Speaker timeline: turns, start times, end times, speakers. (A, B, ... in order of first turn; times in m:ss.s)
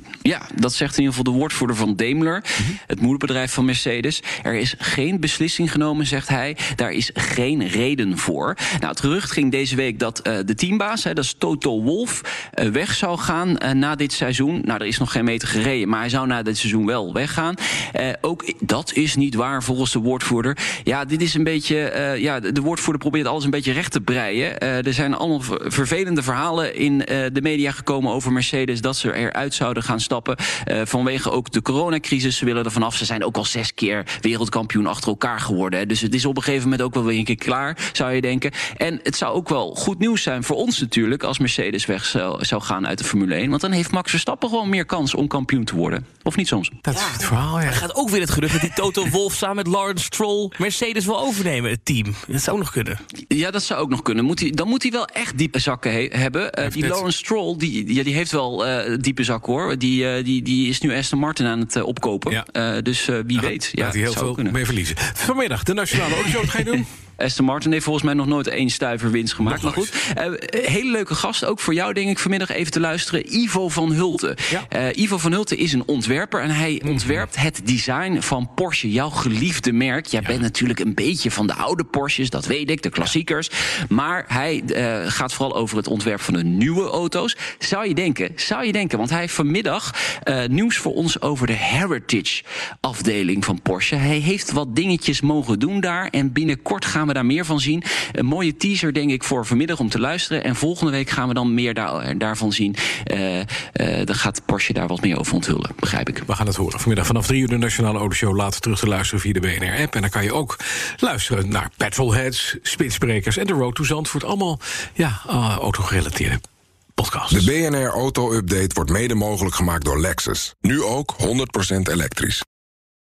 0:00.2-0:46.8 A
0:46.8-0:47.8 B
0:47.7-0:53.0 C
0:53.3-1:04.6 A
0:56.6-0:57.0 B
1:03.4-1:06.9 B
1:07.2-1:46.2 A
1:09.4-1:09.9 B
1:16.9-1:17.2 B
1:46.3-1:56.4 B
1:57.0-1:57.5 B
1:57.4-2:02.4 D